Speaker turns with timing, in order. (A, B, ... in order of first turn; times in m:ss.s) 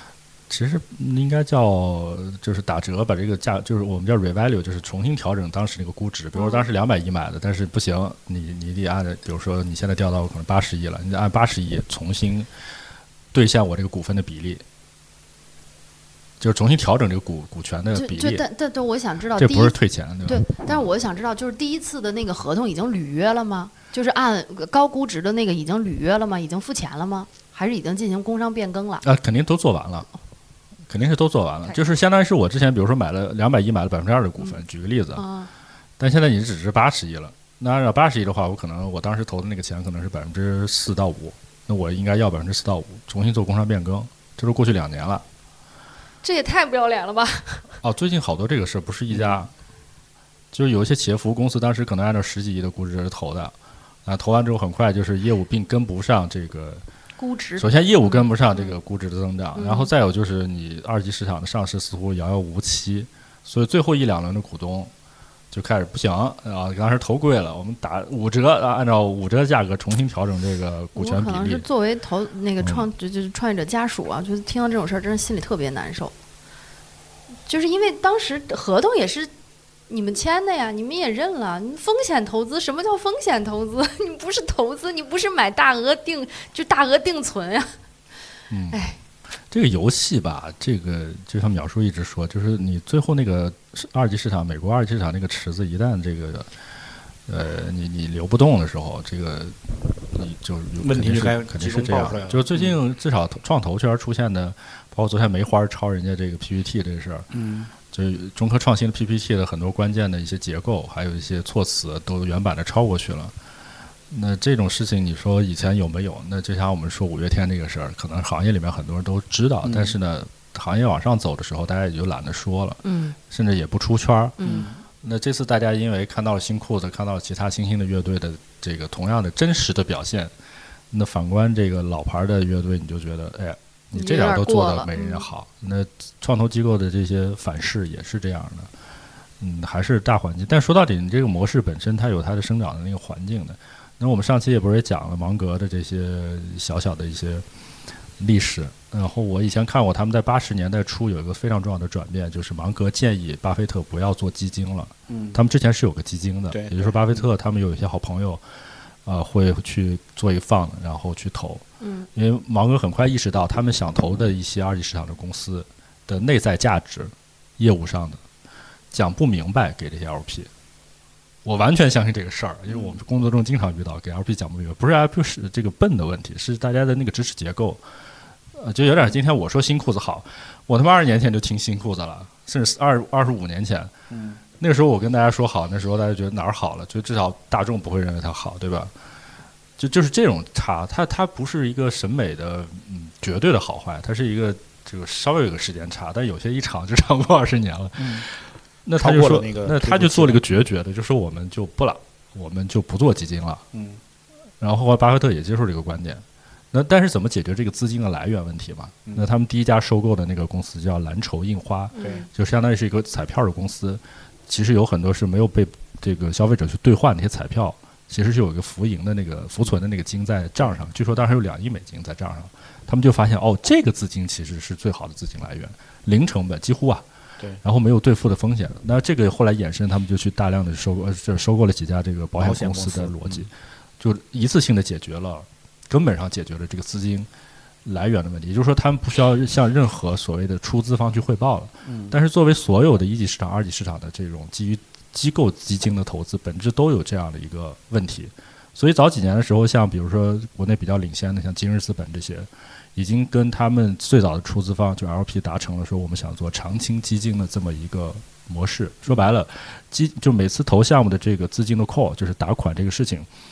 0:00.5-0:12.5 A
0:06.3-0:06.6 B
0:13.3-0:14.6 A
0:16.4-0:18.4 A
0:17.9-0:19.7 B
0:19.4-0:20.8 A
0:20.2-0:29.0 B
0:29.0-0:30.1 A
0:30.9-0:35.2 A
0:35.2-0:35.5 B
0:36.0-0:45.2 A
0:46.2-0:47.6 B
0:47.8-0:49.5 A
0:50.5-0:53.5 A
0:54.0-0:56.8 A
0:57.2-0:58.7 B
0:57.6-1:04.9 A
0:59.6-0:59.9 B
1:05.5-1:11.6 A
1:10.9-1:16.1 B
1:12.6-1:12.9 A
1:17.5-1:19.3 B
1:19.9-1:27.7 B
1:28.5-1:28.9 A
1:28.7-1:29.0 B
1:29.5-1:36.5 A
1:37.3-1:47.3 A
1:40.8-1:42.8 C
1:47.3-1:47.7 C
1:47.9-1:53.3 A
1:54.1-2:04.4 A
1:59.6-2:00.0 C
2:02.8-2:03.2 B
2:04.4-2:04.7 B
2:04.4-2:04.8 C
2:05.0-2:10.3 A
2:10.9-2:18.7 A
2:13.9-2:15.2 B
2:19.4-2:27.4 A
2:28.2-2:38.4 A
2:35.1-2:35.4 C
2:36.5-2:37.3 C
2:39.0-2:41.6 A
2:41.8-2:42.1 B
2:42.1-2:48.2 A
2:48.9-2:50.5 A
2:51.4-2:57.8 A
2:58.5-3:03.9 A
3:04.1-3:04.4 C
3:04.6-3:08.9 A
3:09.8-3:23.6 A
3:18.0-3:18.3 C
3:19.0-3:20.4 C
3:23.7-3:24.0 C
3:24.6-3:47.0 A
3:31.9-3:32.2 B
3:32.0-3:32.2 C
3:47.6-3:57.3 A
3:52.4-3:53.5 C
3:57.8-4:23.3 A
4:01.8-4:02.2 C